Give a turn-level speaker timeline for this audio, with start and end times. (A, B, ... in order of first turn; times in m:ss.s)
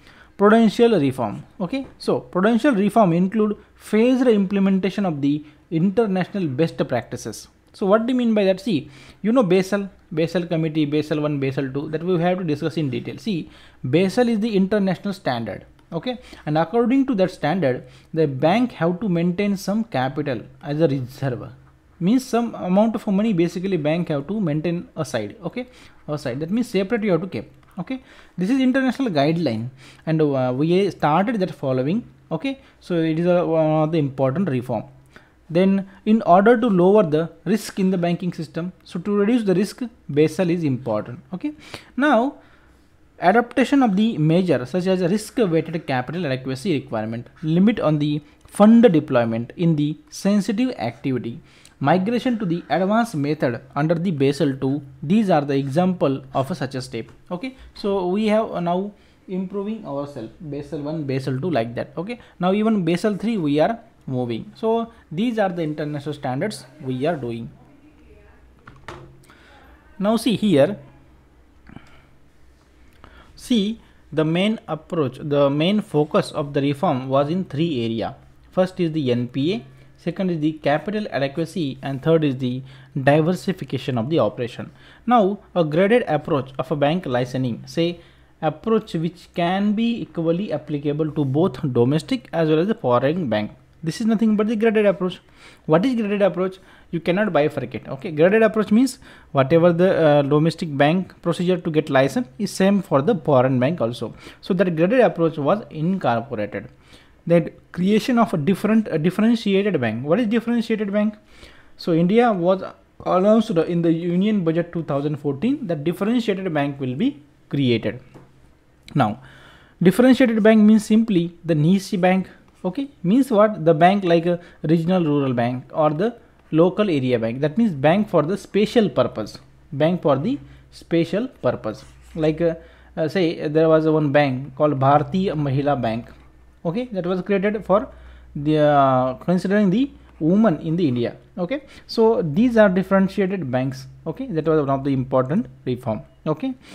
0:00.4-0:34.9 A
0:35.5-0:42.4 A
0:43.2-1:07.5 A
1:10.0-1:10.8 A
1:13.4-1:46.7 A
1:47.2-1:51.2 A
1:51.8-1:58.0 A
1:59.8-2:26.6 A